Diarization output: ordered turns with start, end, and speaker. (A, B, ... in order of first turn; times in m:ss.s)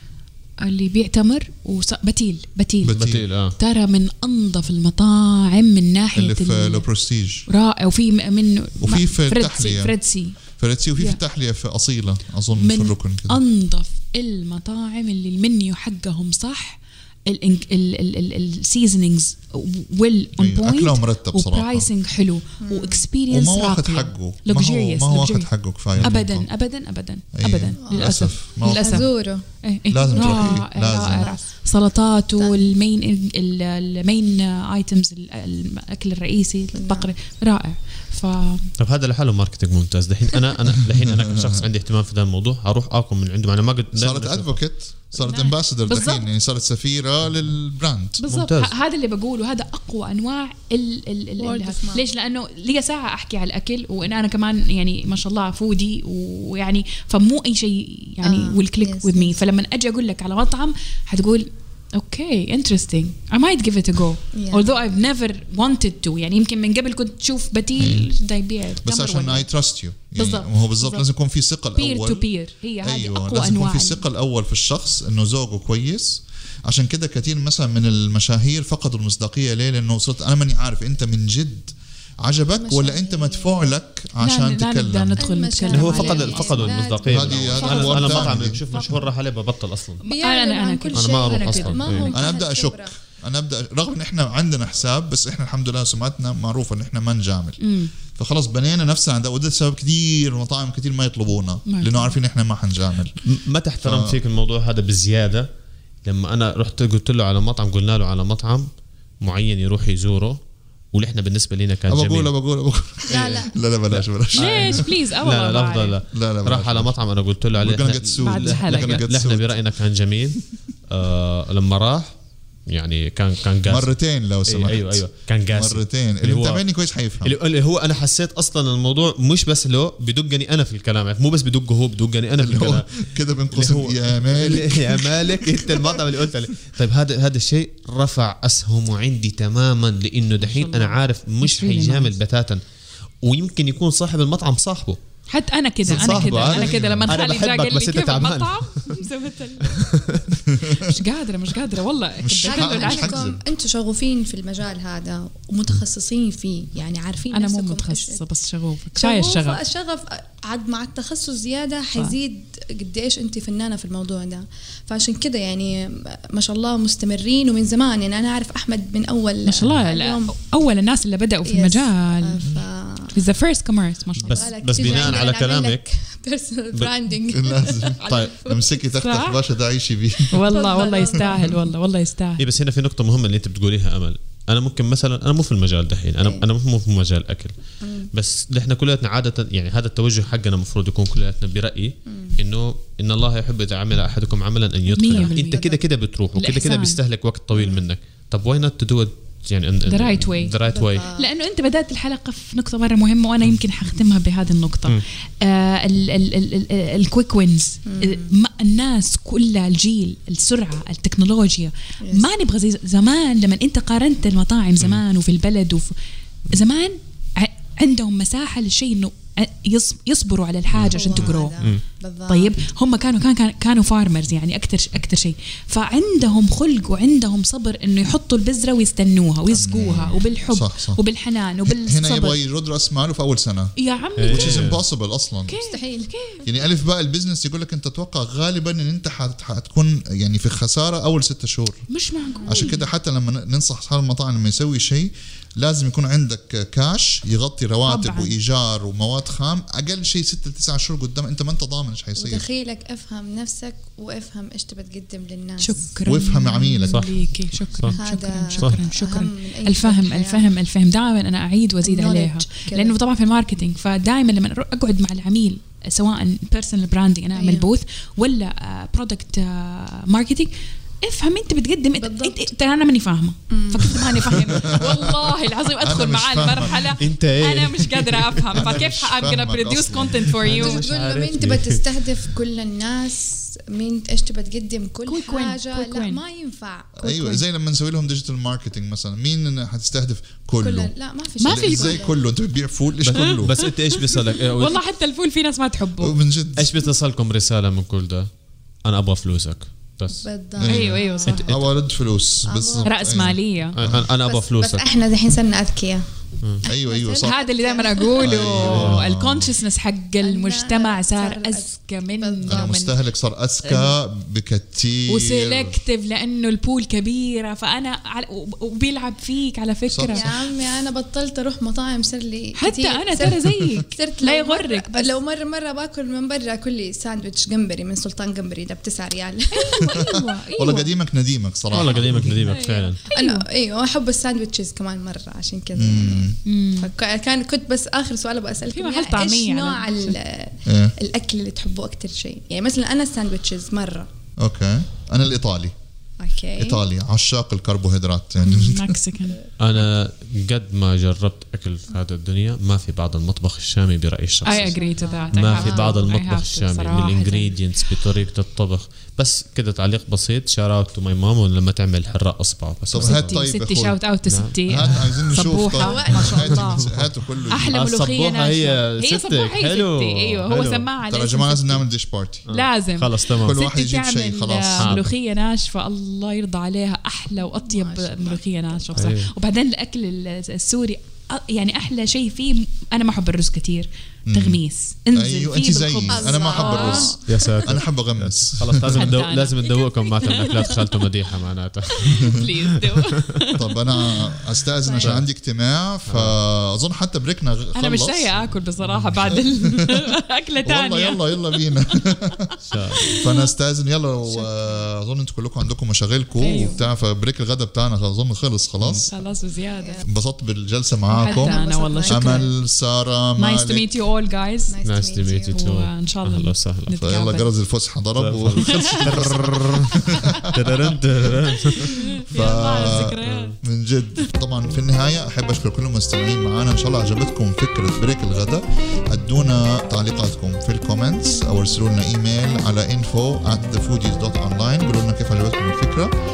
0:00.6-0:02.9 A
0:02.8-0:03.2 B
0:02.8-0:03.6 C
0:03.6-0:06.9 A
0:06.1-0:07.4 B
0:07.5-0:10.4 A
0:08.8-0:09.9 B
0:10.6-0:13.4 B
0:12.6-0:29.1 A
0:20.4-0:21.9 B
0:22.6-0:23.0 D
0:23.3-0:26.5 B
0:27.4-0:29.1 B
0:27.8-0:28.1 D
0:28.6-0:29.4 D
0:29.6-0:38.7 A
0:29.9-0:31.3 B
0:30.0-0:31.4 D
0:32.4-0:32.6 D
0:36.7-0:37.1 D
0:38.8-0:44.6 C
0:40.9-0:41.7 B
0:43.9-0:48.2 B
0:45.2-0:46.3 A
0:48.2-1:09.5 A
0:48.3-0:48.7 C
0:51.4-0:52.0 D
0:58.2-0:59.4 D
1:04.3-1:04.7 D
1:07.8-1:08.1 B
1:08.8-1:12.2 B
1:10.1-1:11.0 A
1:11.8-1:14.0 A
1:12.8-1:25.3 B
1:22.5-1:23.7 D
1:24.2-1:26.7 A
1:25.2-1:28.9 D
1:25.7-1:30.0 C
1:27.0-1:28.6 B
1:27.6-1:28.2 A
1:30.0-1:32.3 A
1:30.0-1:32.9 D
1:30.9-1:32.1 C
1:32.1-1:37.6 B
1:37.6-1:37.9 A
1:38.1-1:43.2 B
1:41.7-1:42.1 A
1:43.2-1:45.5 C
1:43.8-1:44.2 B
1:46.0-1:48.7 C
1:49.2-1:50.4 C
1:50.9-1:52.3 C
1:51.9-1:54.8 B
1:53.1-1:53.6 D
1:53.9-2:02.1 C
1:54.3-1:56.0 A
1:56.1-1:56.9 B
1:57.6-1:59.6 B
1:58.2-1:59.0 A
2:02.7-2:03.9 C
2:03.7-2:07.3 B
2:04.4-2:06.6 C
2:07.2-2:12.9 C
2:12.4-2:15.9 B
2:13.5-2:22.6 C
2:20.4-2:22.1 A
2:23.2-2:25.0 C
2:25.3-2:30.2 A
2:25.8-2:27.2 B
2:25.9-2:28.8 C
2:29.6-2:30.2 C
2:30.5-2:30.9 B
2:30.7-2:33.3 A
2:32.2-2:33.4 B
2:32.4-2:38.2 D
2:37.3-2:39.6 A
2:39.0-2:50.3 D
2:49.4-2:52.4 A
2:49.6-2:49.8 C
2:51.4-2:53.2 D
2:53.1-2:55.2 A
2:54.2-2:55.8 C
2:54.2-2:58.3 D
2:57.3-3:00.4 B
2:58.0-2:59.4 A
3:00.3-3:02.4 A
3:00.5-3:01.6 D
3:02.4-3:07.5 C
3:07.8-3:08.1 D
3:08.1-3:21.0 C
3:12.1-3:12.3 D
3:15.0-3:15.6 A
3:15.0-3:15.8 D
3:16.4-3:17.0 A
3:19.9-3:20.6 A
3:20.6-3:21.3 D
3:21.1-3:35.9 A
3:27.8-3:28.3 D
3:36.5-3:41.6 A
3:40.7-3:41.8 C
3:40.9-3:42.5 D
3:42.3-3:52.4 A
3:49.5-3:51.0 B
3:51.6-3:53.7 B
3:53.8-3:54.6 A
3:54.2-3:54.8 C
3:54.3-3:55.5 B
3:55.5-3:56.4 A
3:55.6-3:56.6 D
3:56.4-4:01.8 B
4:01.9-4:02.8 A
4:02.3-4:02.7 D
4:02.5-4:12.4 B
4:07.8-4:08.3 A
4:12.2-4:15.9 D
4:15.6-4:40.8 A
4:16.0-4:17.0 B
4:16.9-4:18.0 C
4:17.9-4:20.5 D
4:21.8-4:23.0 D
4:27.3-4:27.7 D
4:32.0-4:32.5 D
4:33.5-4:34.4 D
4:34.5-4:37.0 B
4:37.0-4:38.8 C
4:38.5-4:40.6 B
4:40.4-4:41.8 C
4:40.5-4:47.4 D
4:45.0-4:46.2 A
4:47.0-4:50.9 B
4:50.6-4:52.2 D
4:51.4-4:52.1 A
4:51.4-4:53.5 B
4:53.1-4:56.1 A
4:53.1-4:54.8 C
4:56.0-4:56.7 B
4:56.6-4:58.3 C
4:58.8-5:00.2 C
5:00.2-5:01.7 D
5:00.6-5:04.1 B
5:00.7-5:01.5 A
5:02.4-5:03.3 D
5:02.8-5:03.8 A
5:03.7-5:04.8 C
5:04.1-5:06.0 D
5:06.6-5:07.4 B
5:06.6-5:08.6 D
5:07.2-5:13.0 A
5:08.2-5:09.5 B
5:08.6-5:09.0 C
5:10.2-5:11.7 D
5:12.2-5:12.7 D
5:12.5-5:15.8 B
5:13.6-5:13.9 A
5:15.1-5:20.3 A
5:19.9-5:20.3 B
5:20.1-5:30.1 D
5:22.6-5:25.1 A
5:29.5-5:30.9 A
5:29.8-5:32.3 B
5:31.7-5:33.0 C
5:31.8-5:33.4 A
5:33.1-5:44.1 D
5:35.7-5:36.4 B
5:36.4-5:36.9 A
5:38.7-5:40.2 A
5:40.6-5:40.9 B
5:44.4-5:45.7 B
5:46.2-5:46.8 D
5:46.6-5:49.0 B
5:48.4-5:49.5 A
5:49.6-5:54.8 C
5:54.4-5:56.0 D
5:54.4-5:57.6 A
5:55.3-6:03.4 C
6:02.9-6:04.0 B
6:03.0-6:06.9 A
6:04.3-6:05.0 C
6:04.6-6:07.8 B
6:05.8-6:06.6 D
6:06.7-6:10.9 C
6:07.5-6:11.8 A
6:11.1-6:12.4 B
6:12.5-6:13.6 C
6:12.5-6:27.2 A
6:13.4-6:15.0 B
6:14.8-6:15.1 C
6:17.4-6:18.9 D
6:18.9-6:19.3 C
6:24.3-6:24.6 B
6:25.1-6:29.2 B
6:26.1-6:27.7 D
6:27.2-6:33.1 C
6:28.9-6:31.1 A
6:31.9-6:34.3 A
6:33.6-6:38.3 B
6:34.8-6:35.1 A
6:36.0-6:36.4 C
6:37.8-6:41.6 A
6:39.2-6:40.0 B
6:40.6-6:42.5 B
6:42.6-6:43.2 C
6:42.9-6:43.5 A
6:43.1-6:49.1 B
6:44.3-6:44.6 D
6:46.4-6:46.9 A
6:46.5-6:46.8 D
6:48.8-6:49.0 C
6:48.9-6:50.1 A
6:49.7-6:50.0 D
6:50.0-6:53.9 B
6:51.1-6:52.5 A
6:51.2-6:52.5 D
6:53.4-6:54.7 A
6:54.7-6:55.6 D
6:54.8-6:56.9 C
6:55.5-6:57.5 A
6:57.0-7:01.0 B
6:58.2-7:02.2 C
6:58.6-6:59.4 A
7:01.4-7:03.6 A
7:02.3-7:16.1 B
7:03.2-7:03.6 C